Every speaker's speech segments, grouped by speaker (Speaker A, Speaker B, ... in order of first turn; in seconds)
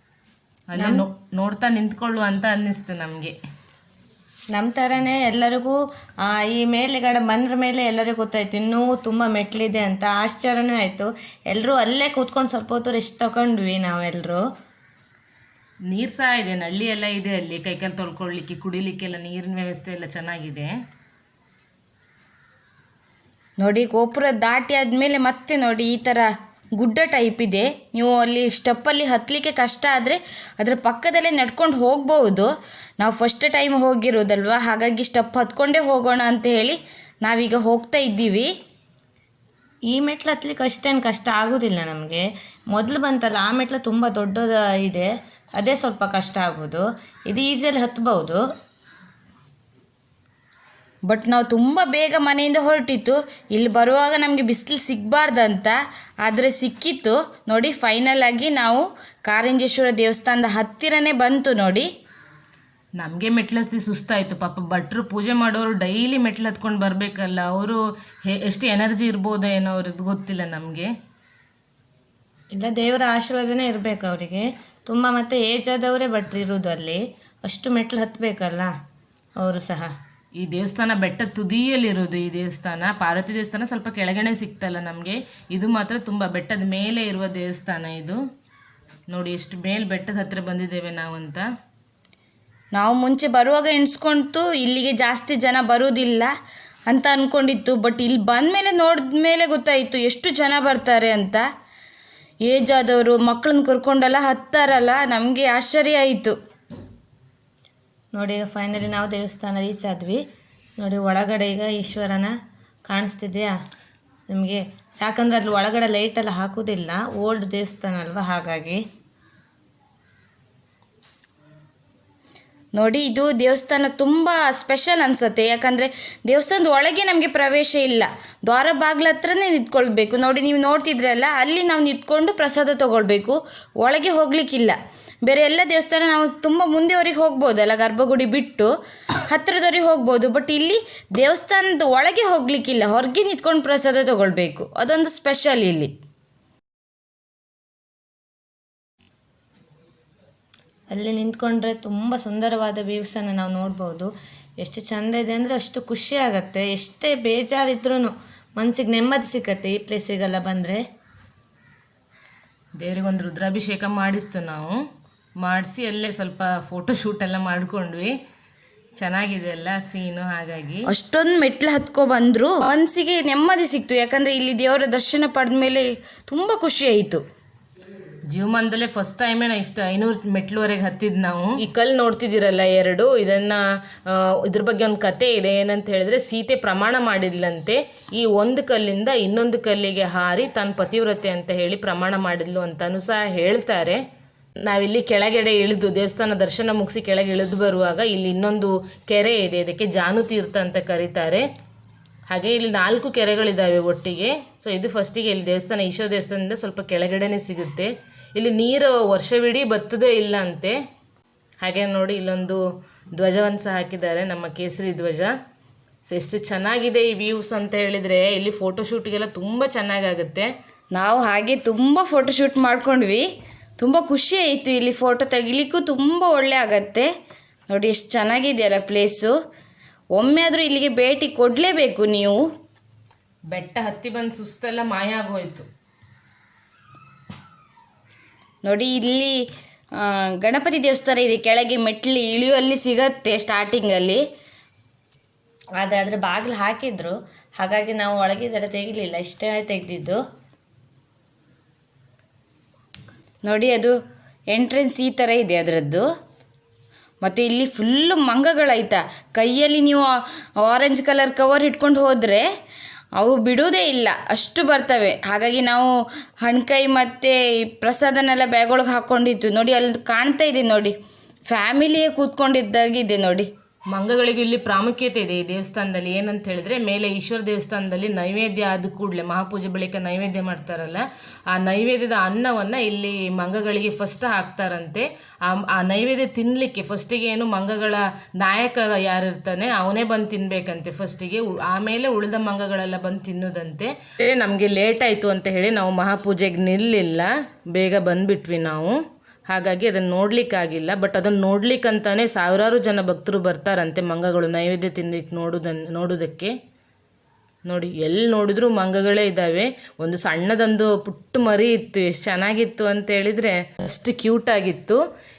Speaker A: 0.7-3.3, 15.9-20.7, 63.0-70.9, 80.4-88.2, 89.1-91.5, 162.8-164.7, 165.4-168.1, 169.0-170.9, 178.3-194.0, 194.7-201.4, 202.3-210.8, 211.6-212.6, 213.2-215.3, 216.1-220.5, 233.5-235.7, 273.9-299.0, 299.5-306.5, 307.7-315.0
Speaker B: 0.8-1.0, 4.5-14.4, 39.9-48.4, 72.5-78.7, 79.4-79.9, 108.1-110.2, 110.8-112.3, 112.8-113.5, 114.3-118.8, 150.9-160.8, 245.8-250.2
Speaker C: 23.6-38.5, 51.1-61.9, 92.7-96.3, 96.9-101.4, 102.4-106.3, 122.7-138.7, 139.3-145.9, 170.9-177.2, 220.9-223.3, 223.8-227.1, 227.7-229.3, 230.2-232.4, 238.6-239.4, 240.0-244.2, 253.4-254.0, 254.5-256.1, 257.2-262.5, 263.2-271.0, 271.5-273.5